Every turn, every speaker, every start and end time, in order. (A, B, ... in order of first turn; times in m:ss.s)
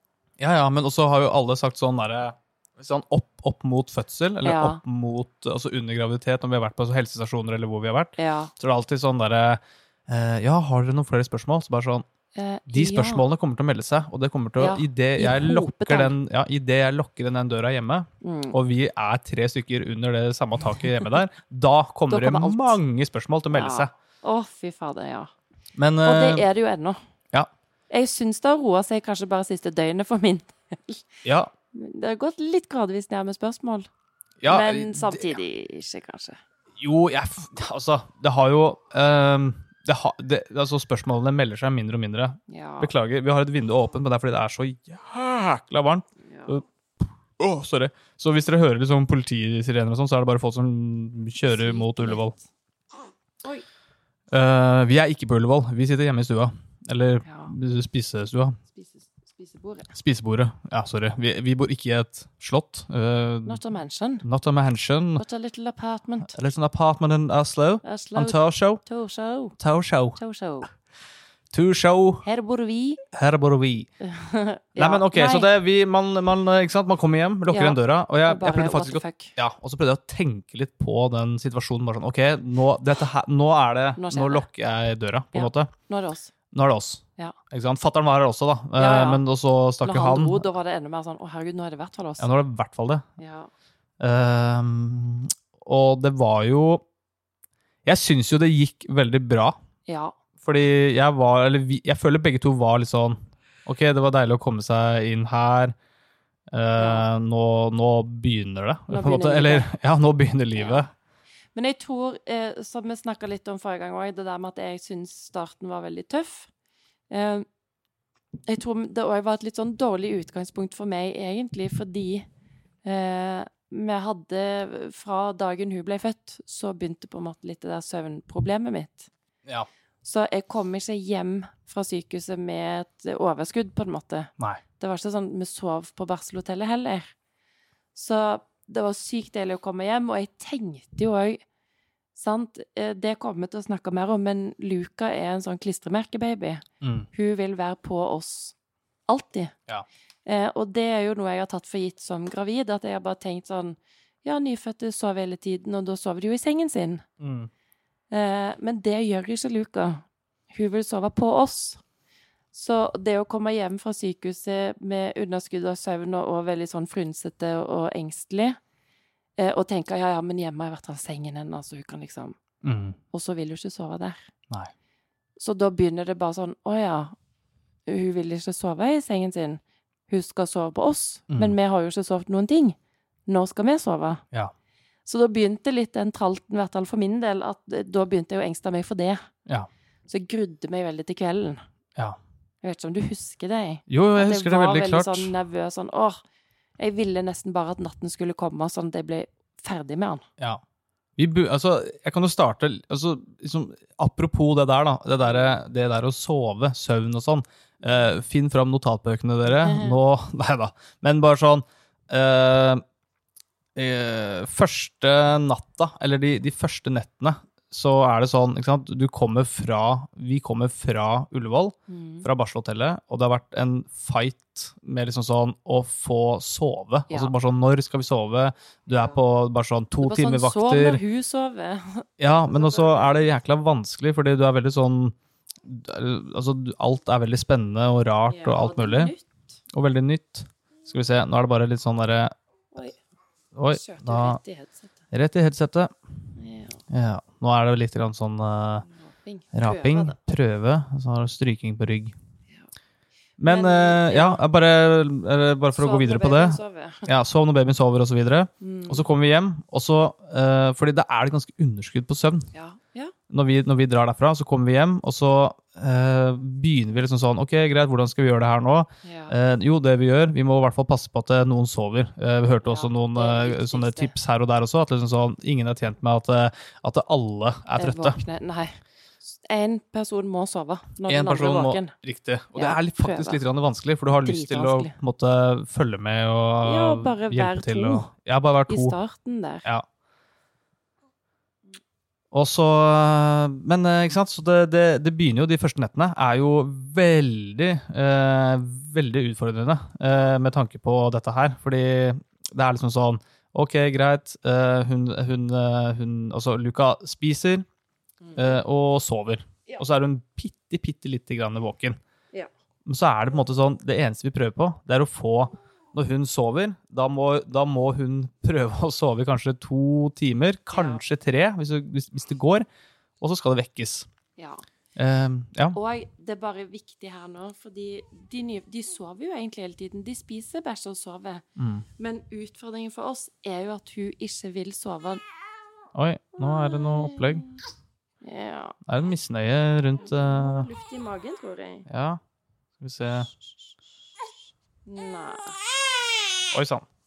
0:00.4-0:12.0 A
0:04.4-0:04.8 B
0:08.2-0:08.5 B
0:12.4-0:13.2 B
0:12.7-0:23.9 A
0:14.6-0:16.2 B
0:18.2-0:18.6 B
0:22.1-0:22.8 B
0:23.5-0:25.3 B
0:25.8-0:26.4 A
0:26.0-0:27.0 B
0:27.9-0:33.9 B
0:31.2-0:31.5 A
0:34.4-0:35.4 A
0:34.5-0:36.4 B
0:36.8-0:52.4 A
0:42.5-0:42.9 B
0:46.2-0:46.6 B
0:51.5-0:52.2 B
0:54.3-0:58.6 A
0:57.2-0:57.5 B
0:58.7-0:59.9 B
0:59.9-1:03.6 A
1:03.4-1:04.2 B
1:04.2-1:05.2 A
1:05.2-1:06.3 B
1:06.2-1:08.8 A
1:07.8-1:09.6 B
1:09.6-1:10.2 A
1:10.2-1:10.7 B
1:11.5-1:12.3 A
1:12.2-1:13.0 B
1:13.1-1:13.9 A
1:14.0-1:15.5 B
1:14.8-1:25.7 A
1:17.5-1:19.3 B
1:24.0-1:24.5 B
1:25.3-1:26.3 B
1:26.5-1:30.5 A
1:28.8-1:29.2 B
1:29.8-1:32.3 B
1:32.2-1:33.0 A
1:33.2-1:33.5 B
1:34.0-1:36.8 A
1:37.8-1:39.6 A
1:39.9-1:40.1 B
1:40.4-1:45.8 A
1:46.5-1:50.9 A
1:46.8-1:47.1 B
1:48.9-1:49.7 B
1:50.6-1:50.8 B
1:51.6-1:56.5 B
1:57.1-1:57.5 B
1:58.5-2:02.3 B
2:02.8-2:09.1 B
2:10.0-2:17.1 B
2:18.0-2:21.4 B
2:22.2-2:28.6 B
2:26.8-2:27.1 A
2:29.1-2:29.5 B
2:30.3-2:37.0 B
2:37.2-2:37.5 A
2:38.1-2:41.8 B
2:42.5-2:48.6 B
2:49.4-2:52.4 B
2:52.6-2:53.0 A
2:53.1-2:54.3 B
2:55.4-2:57.2 B
2:57.9-3:02.8 B
3:01.3-3:01.6 A
3:03.3-3:04.2 B
3:05.1-3:09.3 B
3:10.1-3:11.6 B
3:12.6-3:16.2 B
3:13.9-3:15.3 A
3:16.8-3:20.2 B
3:21.2-3:32.8 A
3:25.2-3:25.6 B
3:29.5-3:30.0 B
3:33.8-3:51.0 A
3:41.9-3:42.3 B
3:50.0-3:53.2 B
3:52.2-3:59.1 A
3:58.3-3:59.5 B
3:59.7-4:02.3 A
4:03.6-4:04.4 A
4:03.7-4:04.9 B
4:05.1-4:06.0 A
4:06.4-4:06.8 B
4:06.9-4:08.8 A
4:08.8-4:10.2 B
4:09.5-4:12.2 A
4:13.4-4:22.5 A
4:13.4-4:14.4 B
4:15.8-4:17.1 B
4:18.6-4:19.0 B
4:22.5-4:23.1 B
4:23.3-4:38.2 A
4:29.0-4:29.3 B
4:32.6-4:34.1 B
4:37.8-4:41.9 B
4:41.1-4:49.0 A
4:42.6-4:43.4 B
4:44.2-4:44.9 B
4:46.6-4:48.1 B
4:48.7-4:49.7 B
4:52.3-5:07.6 A
5:08.2-5:08.6 B
5:08.4-5:12.0 A
5:12.9-5:22.7 A
5:20.7-5:21.0 B
5:23.2-5:24.1 A
5:24.4-5:24.6 B
5:25.0-5:25.8 A
5:25.7-5:31.5 B
5:31.6-5:31.9 A
5:32.0-5:35.2 B
5:35.9-5:37.5 A
5:36.4-5:37.6 B
5:38.2-5:38.8 B
5:38.9-5:40.7 A
5:40.1-5:41.9 B
5:41.9-5:42.2 A
5:42.8-5:43.3 A
5:44.9-5:45.6 B
5:46.5-5:46.9 A